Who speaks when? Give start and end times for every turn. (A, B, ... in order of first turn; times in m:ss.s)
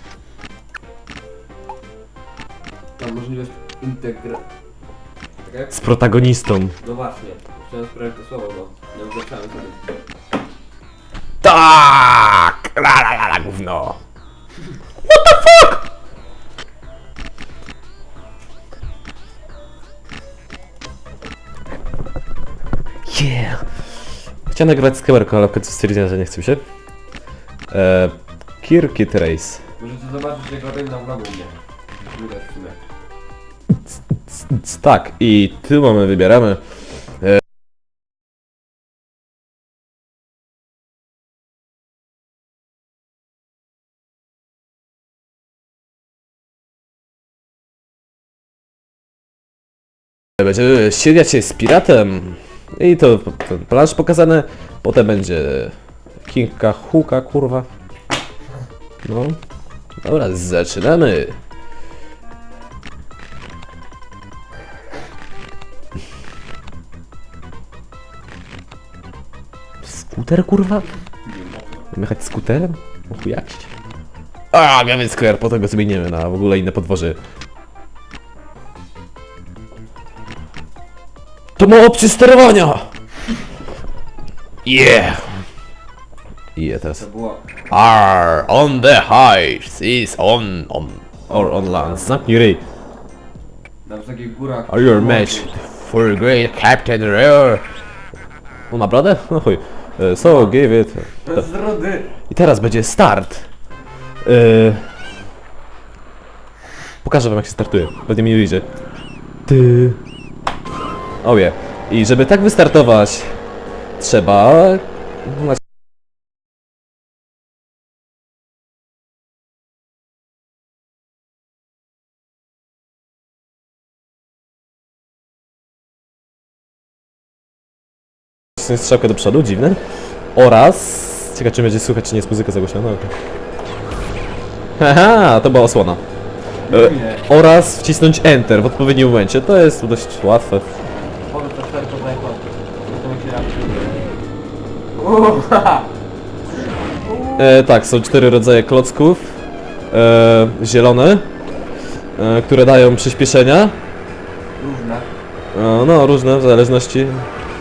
0:03.0-0:04.4 A
0:05.4-0:05.7 A
0:05.7-0:06.7 B
0:06.8-0:09.8 A
0:11.4-0:14.0 B
0:15.0-0:15.8 B
0:23.1-0:26.6 B
0:27.7-0:29.6 B
0:29.8-0:31.6 A
0:32.1-0:32.8 A
0:34.3-0:36.6 B
0:50.4-0:55.7 B
0:56.2-0:57.7 B
0:59.0-0:59.4 B
1:00.0-1:01.4 B
1:09.8-1:10.9 B
1:11.2-1:11.9 A
1:11.9-1:13.7 B
1:14.5-1:17.2 B
1:21.6-1:22.9 B
1:24.6-1:25.4 B
1:26.6-1:27.0 B
1:26.9-1:27.4 A
1:27.7-1:32.6 B
1:31.3-1:32.1 A
1:33.8-1:35.5 A
1:34.7-1:37.7 B
1:38.7-1:41.4 B
1:40.2-1:40.6 A
1:41.2-1:42.1 A
1:42.3-1:43.5 B
1:44.2-1:44.9 B
1:47.0-1:48.6 B
1:49.5-1:50.0 B
1:51.2-1:53.4 B
1:54.0-1:55.6 B
2:08.6-2:09.8 B
2:10.3-2:13.1 B
2:14.8-2:16.0 B
2:16.7-2:17.2 A
2:16.7-2:20.6 B
2:21.3-2:24.0 A
2:24.9-2:25.9 A
2:26.6-2:27.6 A
2:27.4-2:29.4 B
2:29.9-2:31.3 B
2:32.2-2:33.8 B
2:34.6-2:35.1 A
2:35.5-2:37.3 B